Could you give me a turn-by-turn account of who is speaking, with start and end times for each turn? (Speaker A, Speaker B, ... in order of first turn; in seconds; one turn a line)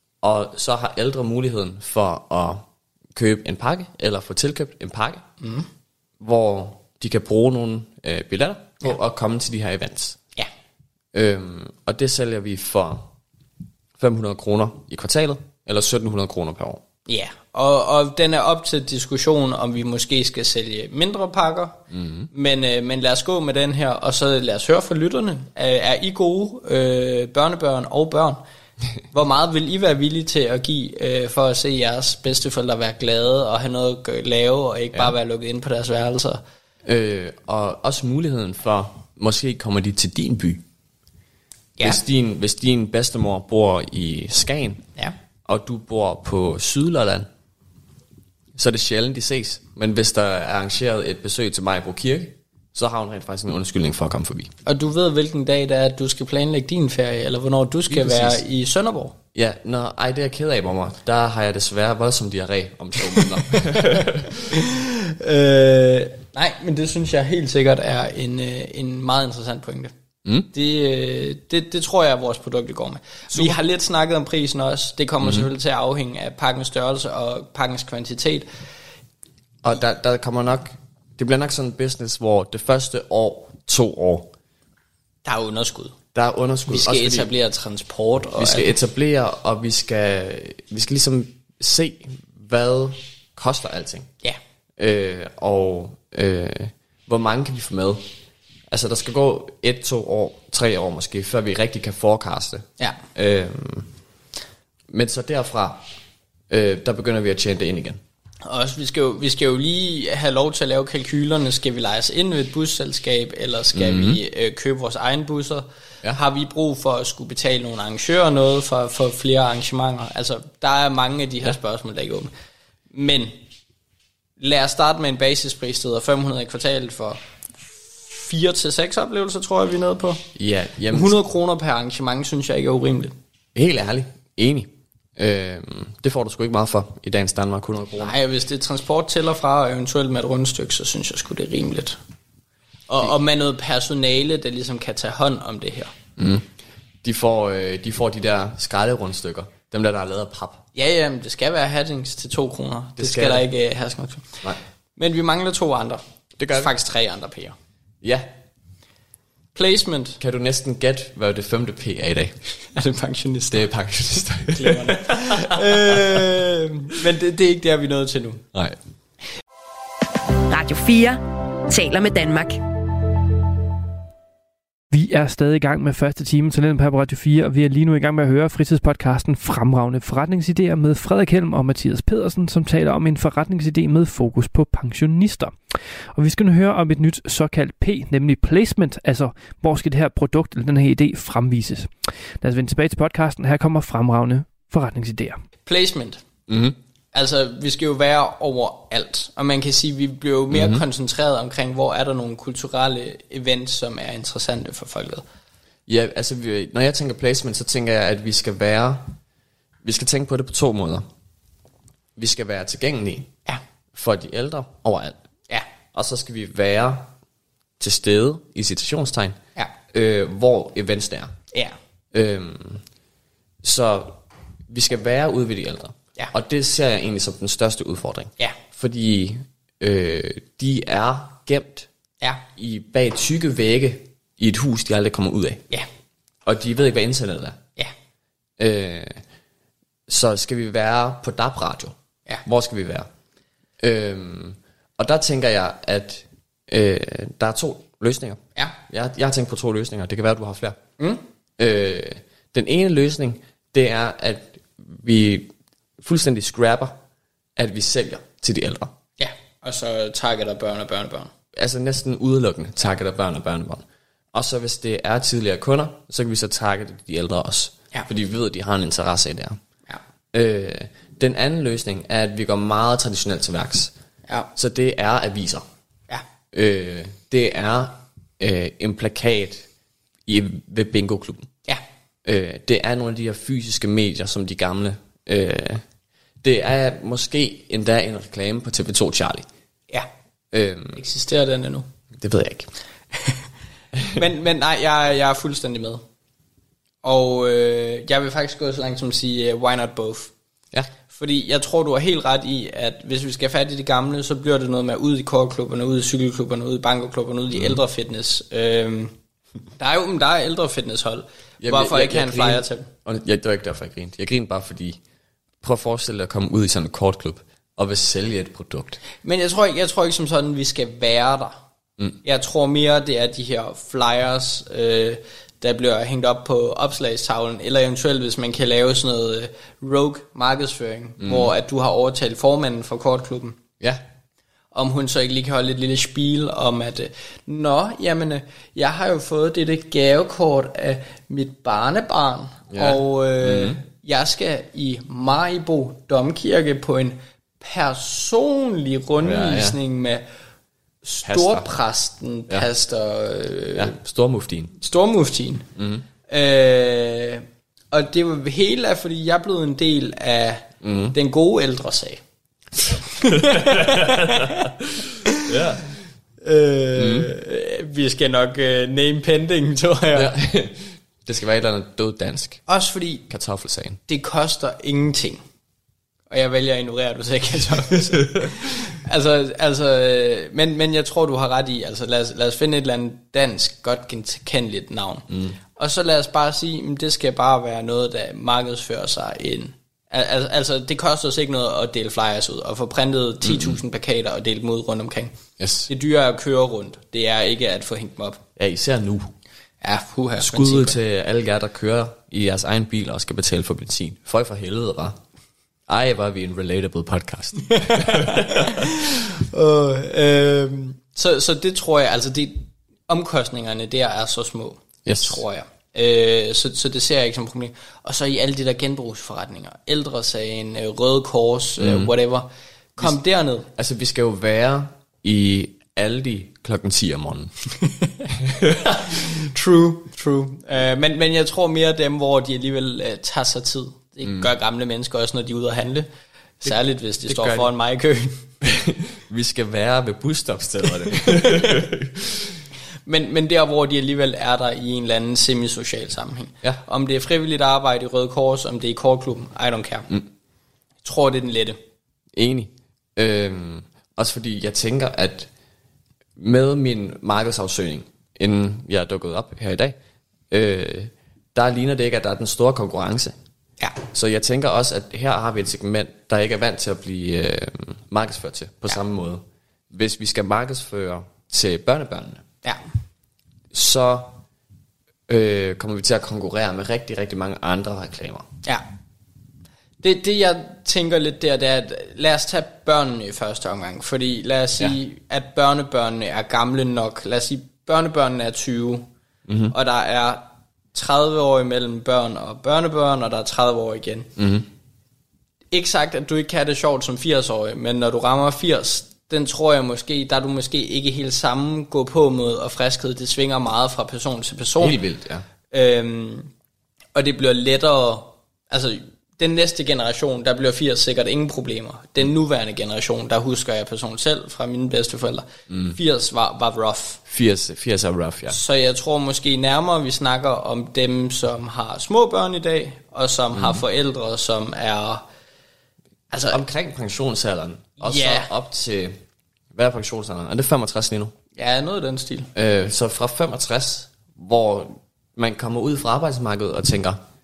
Speaker A: 0.2-5.2
Speaker B: 5.4-5.7
Speaker A: 6.2-10.2
Speaker A: 11.1-13.1
Speaker A: 14.0-16.8
Speaker B: 17.1-28.4
Speaker A: 21.9-22.3
Speaker B: 29.1-36.4
Speaker A: 36.8-40.6
Speaker A: 41.8-44.9
Speaker A: 45.5-47.3
Speaker A: 48.5-54.5
Speaker B: 54.6-59.1
Speaker A: 57.9-58.4
Speaker A: 59.3-64.6
Speaker B: 64.5-69.9
Speaker B: 70.5-78.5
Speaker A: 79.6-84.3
Speaker B: 85.2-86.0
Speaker A: 86.1-87.3
Speaker B: 86.7-88.8
Speaker A: 88.4-94.1
Speaker A: 94.8-98.0
Speaker A: 98.7-103.9
Speaker A: 104.9-105.8
Speaker A: 106.5-108.0
Speaker B: 108.4-122.3
Speaker A: 113.7-114.2
Speaker B: 122.9-123.3
Speaker B: 124.4-127.2
Speaker B: 127.7-130.2
Speaker A: 130.3-131.1
Speaker B: 130.9-133.2
Speaker A: 133.5-138.2
Speaker B: 138.0-142.0
Speaker B: 142.9-145.9
Speaker A: 146.2-146.4
Speaker A: 147.0-150.6
Speaker B: 150.7-154.4
Speaker A: 153.0-153.5
Speaker B: 154.9-157.6
Speaker A: 156.4-156.7
Speaker A: 158.0-158.3
Speaker B: 159.5-160.2
Speaker A: 160.2-162.4
Speaker B: 162.7-163.7
Speaker A: 163.5-166.2
Speaker B: 164.5-168.4
Speaker C: 170.5-172.6
Speaker D: 174.9-185.5
Speaker D: 186.1-191.9
Speaker D: 192.4-195.4
Speaker B: 195.7-196.2
Speaker A: 196.5-196.8
Speaker B: 197.1-205.2
Speaker A: 200.5-200.8
Speaker A: 205.9-209.1
Speaker A: 209.8-211.1
Speaker A: 212.2-213.3
Speaker A: 213.9-215.2
Speaker A: 215.9-217.1
Speaker A: 217.8-219.4
Speaker A: 219.9-221.3
Speaker A: 222.1-222.8
Speaker A: 223.6-231.9
Speaker A: 232.6-235.6
Speaker A: 236.4-237.6
Speaker A: 238.6-239.2
Speaker A: 240.1-243.1
Speaker A: 243.8-250.8
Speaker A: 251.6-256.9
Speaker A: 257.6-258.9
Speaker B: 259.2-261.3
Speaker A: 261.5-269.6
Speaker A: 270.3-273.9
Speaker A: 274.5-275.6
Speaker A: 276.5-279.6
Speaker A: 280.2-281.5
Speaker A: 282.2-285.8
Speaker A: 286.4-289.5
Speaker A: 290.5-291.0
Speaker B: 290.9-291.9
Speaker A: 292.2-292.7
Speaker B: 293.1-293.4
Speaker B: 294.1-296.0
Speaker B: 297.0-300.3
Speaker B: 301.1-309.1
Speaker A: 307.5-307.8
Speaker B: 309.8-312.9
Speaker A: 311.6-315.0
Speaker A: 315.6-319.0
Speaker B: 319.2-321.6
Speaker B: 322.2-333.6
Speaker A: 331.2-331.5
Speaker B: 334.7-350.2
Speaker A: 342.7-343.8
Speaker A: 349.2-349.8
Speaker B: 351.0-353.9
Speaker A: 351.2-351.7
Speaker A: 353.8-354.7
Speaker B: 354.8-355.7
Speaker A: 355.8-356.0
Speaker B: 356.3-362.2
Speaker A: 360.8-361.1
Speaker B: 362.9-364.7
Speaker A: 363.3-365.9
Speaker B: 366.4-370.3
Speaker A: 366.9-367.3
Speaker A: 370.1-372.6
Speaker B: 372.7-373.2
Speaker A: 373.3-374.0
Speaker B: 374.1-375.4
Speaker B: 376.3-395.3
Speaker A: 385.3-385.5
Speaker A: 393.4-393.8
Speaker A: 395.6-395.9
Speaker B: 395.9-398.4
Speaker A: 398.6-399.3
Speaker B: 399.8-401.0
Speaker A: 400.4-405.2
Speaker A: 405.9-409.0
Speaker B: 407.7-423.7
Speaker A: 415.0-415.4
Speaker A: 421.8-422.1
Speaker A: 423.7-427.5
Speaker B: 427.8-428.3
Speaker A: 428.3-429.2
Speaker B: 429.1-436.1
Speaker B: 436.6-438.5
Speaker A: 436.6-437.7
Speaker A: 438.6-442.6
Speaker B: 441.1-441.8
Speaker B: 443.1-450.1
Speaker B: 451.0-451.8
Speaker A: 452.3-455.5
Speaker A: 456.4-459.9
Speaker A: 460.5-463.4
Speaker A: 464.1-472.4
Speaker A: 473.7-474.4
Speaker A: 475.3-478.4
Speaker B: 480.0-489.1
Speaker A: 489.5-489.7
Speaker B: 489.7-494.3
Speaker A: 494.4-494.7
Speaker B: 495.7-505.0
Speaker A: 504.8-505.4
Speaker B: 505.7-506.5
Speaker B: 507.1-517.2
Speaker A: 515.7-516.0
Speaker A: 517.3-518.6
Speaker B: 518.5-525.2
Speaker A: 523.5-523.8
Speaker B: 526.3-526.6
Speaker A: 526.5-529.2
Speaker B: 528.0-528.5
Speaker A: 529.7-531.3
Speaker B: 531.5-532.5
Speaker A: 532.5-537.2